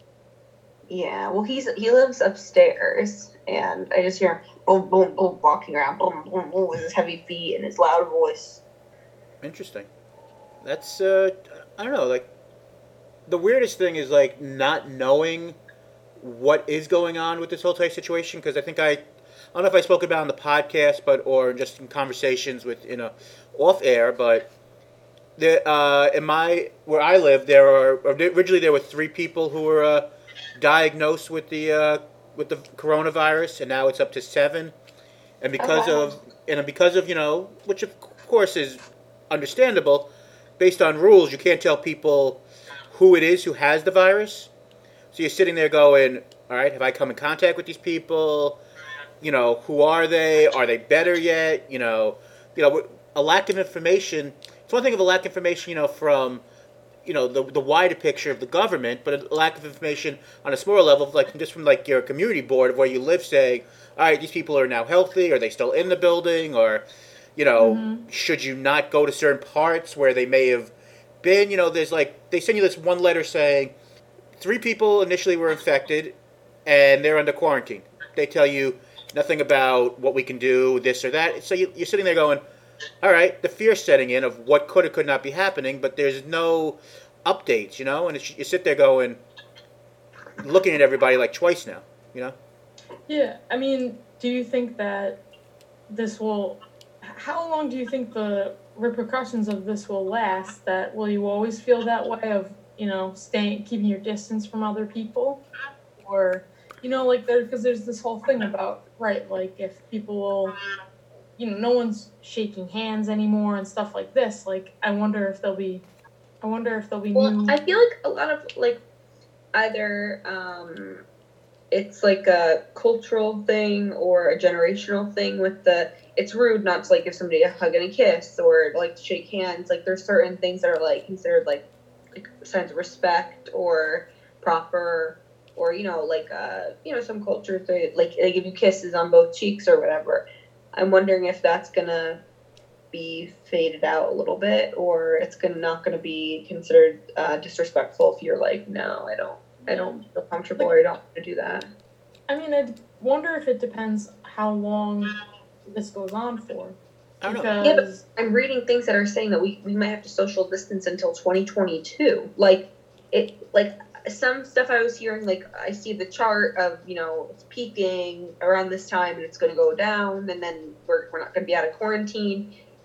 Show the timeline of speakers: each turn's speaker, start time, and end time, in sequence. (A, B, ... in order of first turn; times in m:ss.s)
0:00.9-0:08.6 A
0:09.4-0:09.9 B
0:10.6-0:12.3 B
0:13.3-0:15.6 B
0:16.2-0:19.0 B
0:19.5-0:24.5 B
0:25.4-0:30.0 B
0:30.6-0:34.7 B
0:35.4-0:40.1 B
0:35.6-0:36.2 A
0:40.6-0:44.5 B
0:45.1-0:48.6 B
0:49.2-0:56.4 B
0:57.0-1:06.8 B
1:07.4-1:13.7 B
1:07.6-1:08.0 C
1:14.4-1:16.1 B
1:16.6-1:22.4 B
1:23.0-1:29.2 B
1:30.4-1:32.3 B
1:33.1-1:35.2 C
1:35.9-1:45.4 C
1:46.0-1:50.5 C
1:51.4-1:55.8 C
1:56.4-1:57.6 C
1:57.1-1:58.8 A
1:59.5-2:01.0 A
2:01.7-2:20.2 A
2:20.7-2:22.2 A
2:22.9-2:31.7 A
2:32.3-2:35.1 C
2:35.7-2:38.0 C
2:37.2-2:37.5 B
2:37.6-2:52.5 A